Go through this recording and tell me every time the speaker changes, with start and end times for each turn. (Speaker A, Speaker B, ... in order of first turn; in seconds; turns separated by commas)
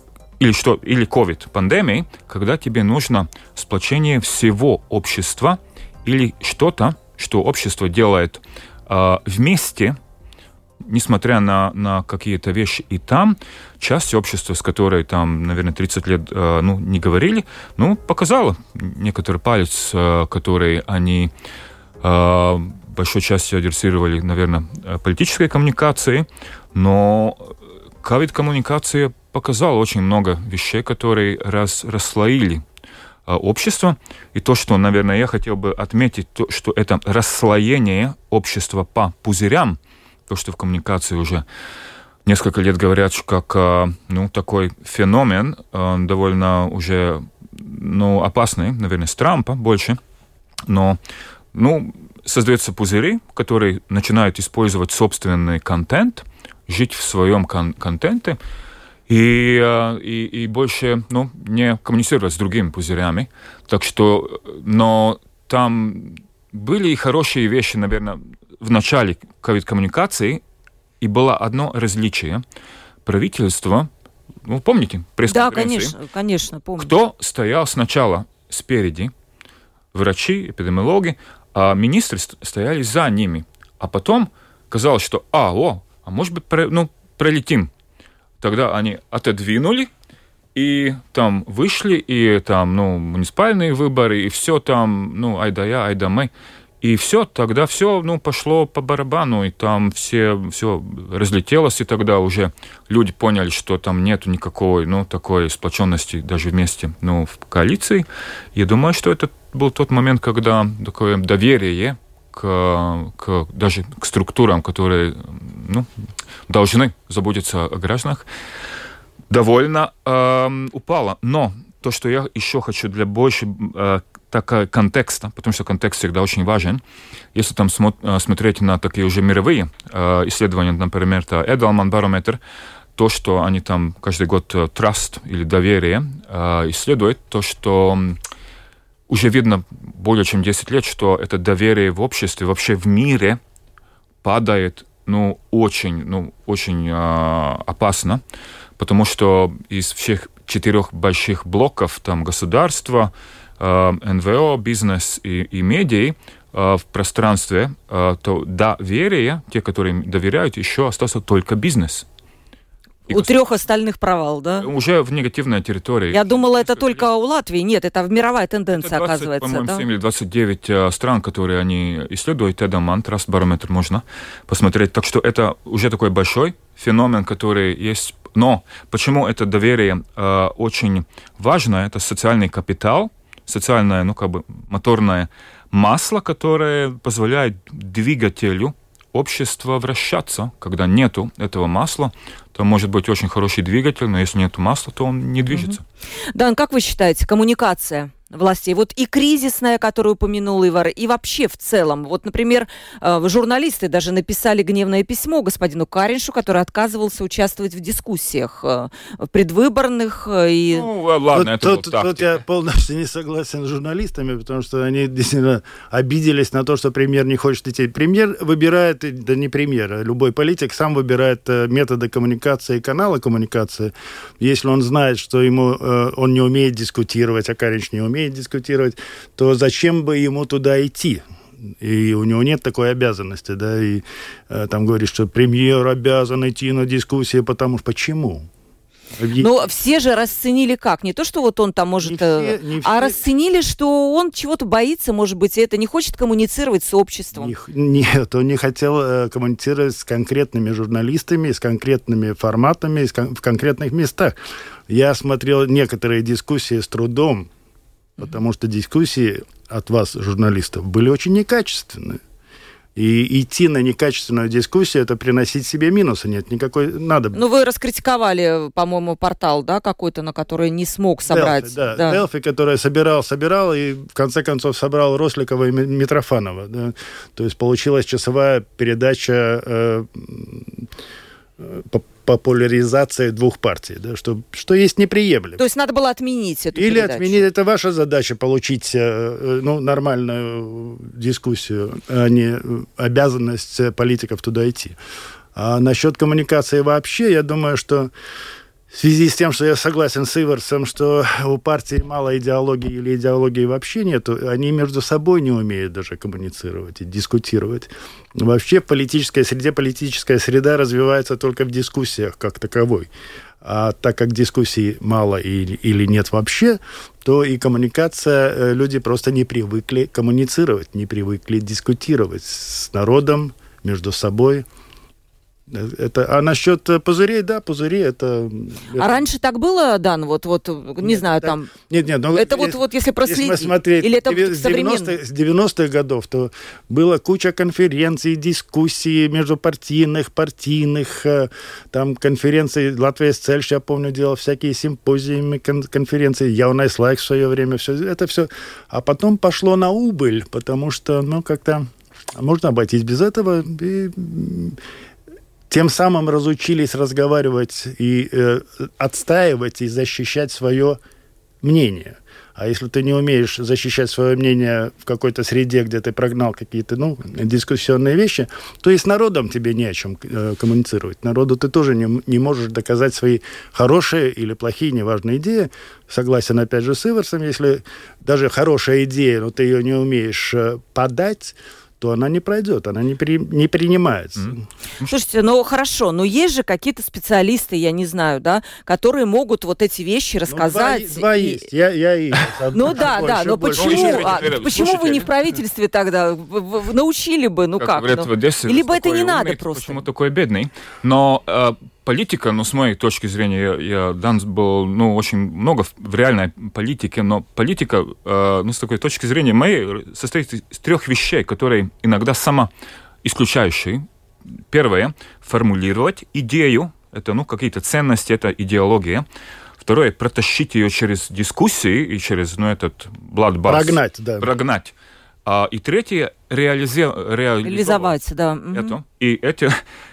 Speaker A: 0.4-9.9, Speaker A: 10.8-21.3, Speaker A: 22.0-32.6, Speaker A: 33.3-41.4, Speaker A: 42.2-50.0, Speaker A: 50.6-51.0, Speaker A: 51.5-58.4, Speaker A: 59.1-70.4, Speaker A: 71.0-72.4, Speaker A: 73.0-73.9, Speaker A: 74.4-75.9, Speaker B: 75.3-76.9, Speaker A: 76.8-79.1, Speaker A: 79.9-87.7, Speaker A: 88.4-89.9, Speaker A: 90.5-96.3, Speaker A: 96.8-115.9, Speaker A: 116.5-118.2, Speaker A: 119.3-126.8, Speaker A: 127.3-132.4, Speaker A: 133.0-138.2, Speaker A: 139.1-143.4, Speaker A: 144.2-148.2, Speaker A: 148.8-162.1, Speaker B: 163.1-164.7, Speaker A: 164.6-167.0, Speaker B: 166.1-169.8, Speaker A: 168.8-195.8, Speaker B: 195.5-195.8, Speaker B: 196.3-210.9, Speaker A: 210.7-212.4, Speaker C: 211.3-238.5, Speaker C: 239.2-239.5, Speaker B: 239.4-247.5, Speaker C: 242.0-243.2, Speaker C: 247.3-254.3, Speaker C: 254.9-257.5, Speaker C: 258.2-262.2, Speaker C: 262.9-267.4, Speaker B: 267.3-272.2, Speaker C: 271.3-280.9, Speaker C: 281.6-285.6, Speaker B: 285.6-287.5, Speaker C: 286.7-294.9, Speaker C: 295.5-298.1, Speaker C: 298.9-313.1, Speaker C: 313.6-324.6, Speaker C: 325.7-329.2, Speaker B: 328.9-331.7, Speaker C: 331.0-354.8, Speaker B: 332.3-335.2, Speaker C: 355.7-361.0, Speaker C: 361.6-384.6, Speaker A: 384.4-385.1, Speaker B: 385.0-391.6, Speaker C: 390.5-394.6, Speaker B: 392.7-400.0, Speaker A: 393.8-395.3, Speaker A: 397.8-412.7, Speaker A: 413.2-414.0, Speaker A: 414.7-419.2, Speaker A: 419.8-424.9, Speaker C: 423.6-424.5, Speaker A: 425.4-428.1, Speaker B: 427.6-428.9, Speaker A: 428.7-429.8